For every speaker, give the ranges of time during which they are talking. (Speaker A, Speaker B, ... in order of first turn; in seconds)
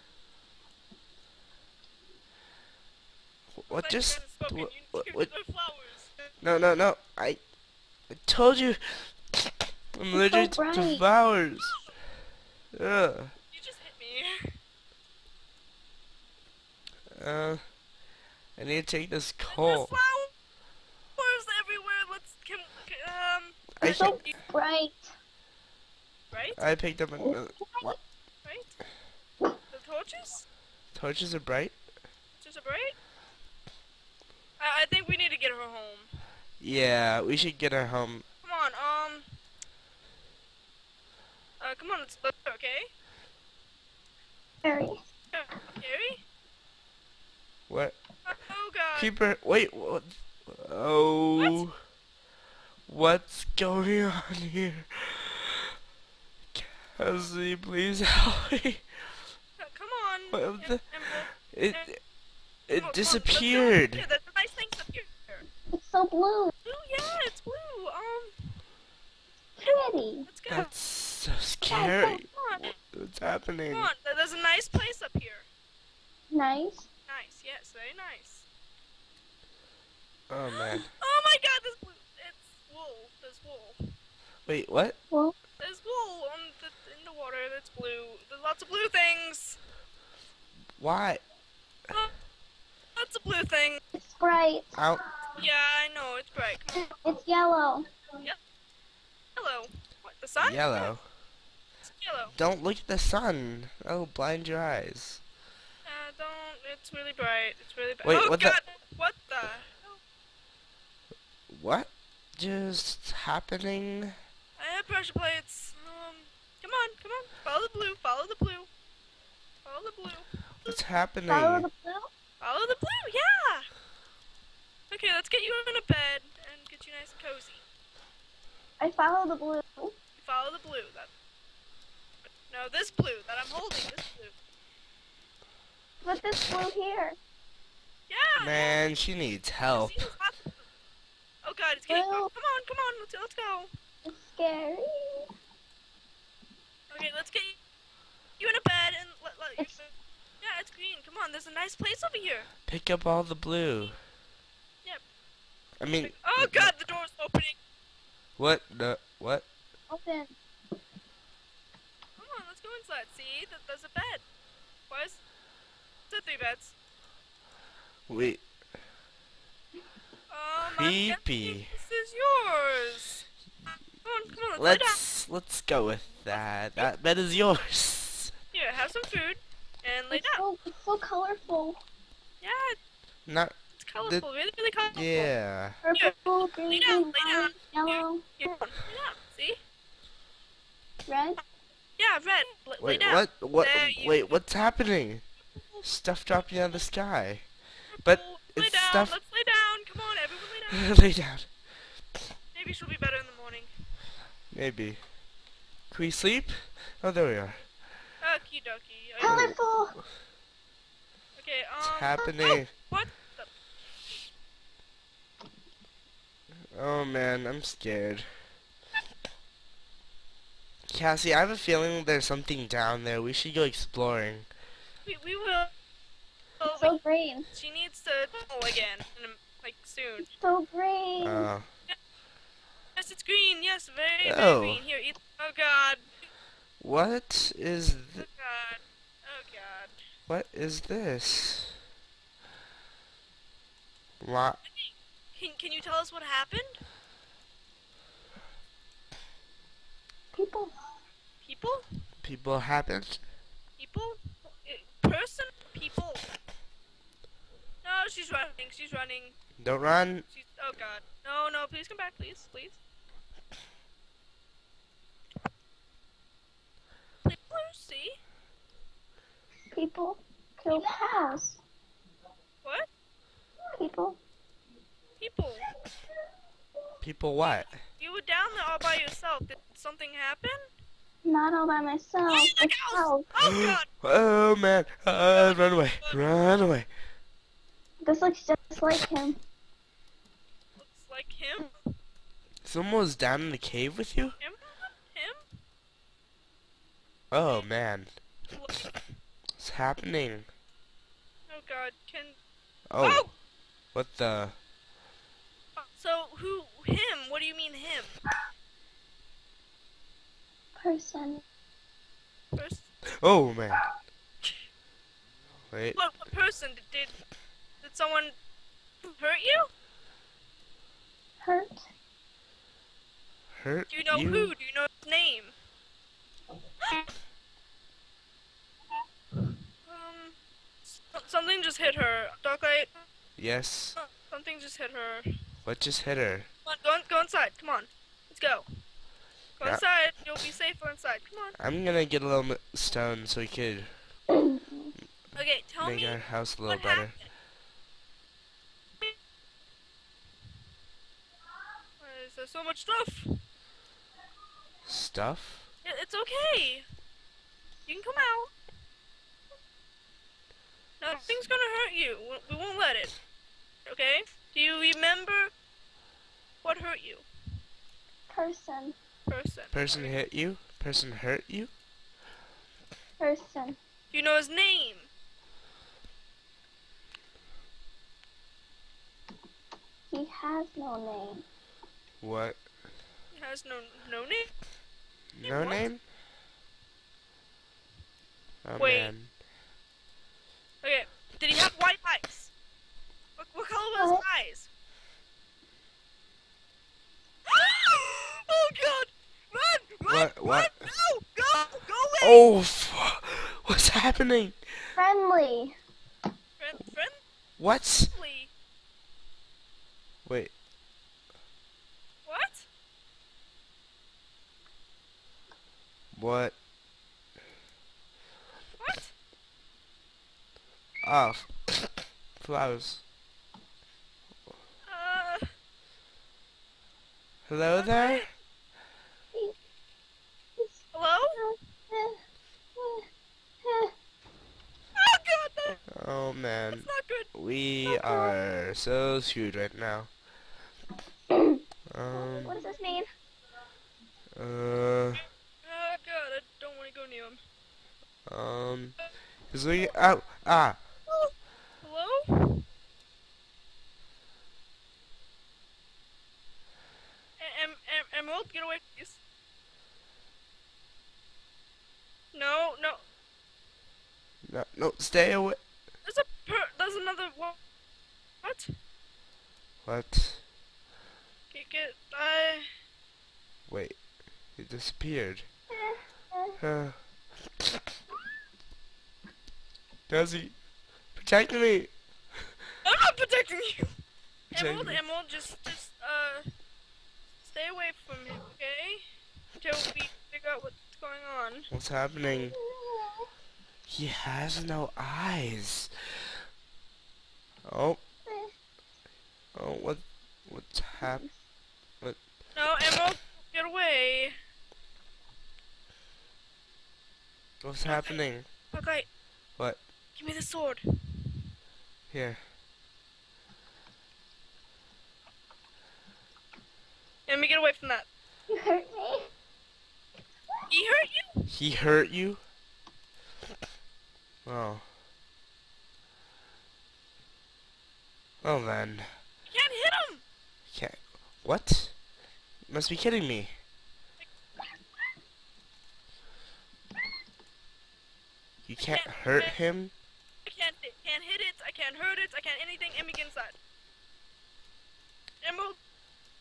Speaker A: 3.6-5.3, 6.4-7.4, 8.1-9.2, 9.9-11.8, 12.7-13.3, 17.1-17.6, 18.6-19.9, 26.6-28.0, 30.9-31.8, 36.6-38.2, 47.7-48.0, 49.0-51.7, 52.9-55.7, 56.5-58.9, 60.3-62.0, 62.7-64.1, 70.5-73.9, 80.3-80.9, 84.5-85.0, 90.8-91.2, 94.8-95.0, 100.4-101.0, 102.3-105.2, 108.0-108.6, 111.5-114.1, 120.7-121.7, 138.4-140.1, 152.7-154.0, 155.8-156.7, 158.4-159.5, 168.1-168.4, 170.7-171.7, 174.6-178.3, 183.3-184.3, 184.9-185.8, 192.8-195.2, 195.8-197.5, 198.1-199.2, 200.7-201.5, 204.5-205.0, 205.9-207.7, 209.3-209.6, 211.8-212.7, 216.7-218.3, 220.9-224.5, 231.2-231.7, 234.2-234.8, 236.8-238.3, 240.3-241.8, 244.2-244.6, 252.2-253.2, 259.6-260.3, 277.0-277.8, 283.4-286.9, 292.6-294.4, 297.3-298.1, 299.6-300.5, 302.9-303.3, 303.9-304.6, 313.2-313.9, 315.7-316.0, 323.5-324.5, 333.4-334.0, 335.6-336.5, 341.6-343.9, 345.8-347.2, 354.9-355.7, 369.7-371.7, 382.2-382.6, 385.3-386.0, 388.6-389.3, 400.1-400.8, 402.2-404.6, 407.6-408.1, 410.2-410.5, 416.1-416.6, 421.0-421.5, 422.4-423.0, 427.5-428.3, 435.9-440.1, 441.9-442.5, 444.4-445.2, 448.3-449.0, 449.5-450.8, 464.4-465.6, 469.9-470.4, 473.7-474.0, 474.6-475.5, 476.6-477.0, 480.1-480.6, 481.2-481.9, 484.5-485.0, 491.7-492.6, 493.9-495.9, 497.6-498.0, 499.5-501.2, 507.6-508.5, 512.1-512.4, 521.5-522.4, 524.5-524.8, 528.4-529.1, 530.7-532.0, 532.7-533.5, 538.7-539.9
Speaker B: 3.7-6.3, 13.5-14.6, 19.5-20.3, 21.2-24.3, 26.3-26.6, 28.4-28.7, 29.7-30.4, 32.4-33.0, 34.6-36.1, 38.4-39.3, 41.6-42.9, 45.3-46.2, 48.2-49.1, 51.4-51.6, 59.6-61.9, 62.8-65.5, 66.7-68.6, 69.7-70.7, 72.3-72.7, 73.7-75.5, 77.1-78.5, 80.5-83.8, 85.6-89.6, 93.0-93.8, 95.4-96.9, 99.4-100.9, 101.8-102.3, 105.8-110.0, 114.6-118.7, 119.7-120.8, 122.4-123.7, 124.9-127.6, 130.2-131.1, 132.4-134.3, 138.1-138.8, 139.7-140.6, 141.4-143.7, 146.9-147.6, 148.4-149.9, 150.4-152.5, 156.0-157.6, 162.2-164.2, 164.9-165.2, 166.1-166.7, 170.3-173.2, 174.0-175.0, 176.3-176.9, 178.5-180.4, 182.4-182.8, 183.8-185.3, 186.7-189.6, 192.0-194.4, 195.6-196.8, 197.9-200.9, 202.5-203.7, 208.2-209.5, 211.4-213.5, 225.1-225.7, 226.6-227.0, 227.5-230.3, 233.0-236.1, 238.2-239.9, 244.7-246.8, 251.4-251.8, 253.8-256.2, 257.8-259.4, 260.3-262.8, 267.2-268.2, 272.6-272.9, 275.2-275.7, 277.4-280.7, 282.3-283.9, 285.2-286.3, 290.8-291.8, 294.4-295.4, 298.5-298.9, 301.5-302.4, 303.0-303.3, 305.8-308.2, 312.5-312.9, 316.0-317.2, 317.8-318.4, 319.0-319.7, 323.9-325.5, 329.9-330.4, 330.9-333.1, 334.0-335.3, 336.6-338.7, 339.6-341.6, 345.4-347.3, 352.0-353.4, 355.8-356.9, 357.9-358.5, 361.0-363.1, 363.9-365.5, 366.6-367.3, 369.3-370.2, 374.1-375.1, 383.3-384.5, 385.4-385.9, 388.8-389.1, 390.8-392.5, 393.4-394.7, 397.5-402.5, 406.6-407.2, 408.1-408.5, 412.3-412.7, 418.8-419.1, 424.9-425.5, 427.8-428.3, 430.9-431.4, 435.0-435.8, 436.7-437.3, 445.6-447.4, 451.1-452.7, 457.4-459.2, 462.3-463.0, 466.1-467.6, 468.4-468.7, 471.5-472.7, 482.8-484.0, 484.5-486.4, 487.4-489.0, 489.6-491.7, 502.6-504.4, 507.9-508.2, 508.7-509.1, 510.2-511.3, 517.3-518.1, 520.7-521.4, 529.5-530.2, 538.8-539.6, 540.5-543.6, 545.4-545.8
Speaker C: 10.1-11.0, 23.8-25.1, 27.2-27.9, 44.6-45.0, 65.7-66.5, 69.6-70.3, 71.7-72.2, 76.3-76.9, 93.9-94.8, 96.9-97.9, 121.3-122.1, 128.8-129.9, 136.0-137.2, 141.9-142.3, 144.1-145.3, 159.9-160.3, 180.1-181.8, 185.8-188.2, 191.1-191.4, 209.2-210.0, 226.7-227.5, 230.2-231.5, 250.3-250.7, 269.7-271.6, 273.8-274.2, 281.2-283.3, 288.0-289.4, 310.8-311.4, 321.4-321.9, 344.3-344.9, 368.3-368.9, 373.2-373.8, 380.1-381.4, 394.0-394.2, 405.0-405.8, 431.3-432.2, 432.8-433.1, 433.6-433.9, 437.9-438.3, 441.3-441.6, 442.1-443.1, 475.7-476.6, 492.4-493.3, 498.3-498.5, 501.0-501.3, 518.5-519.3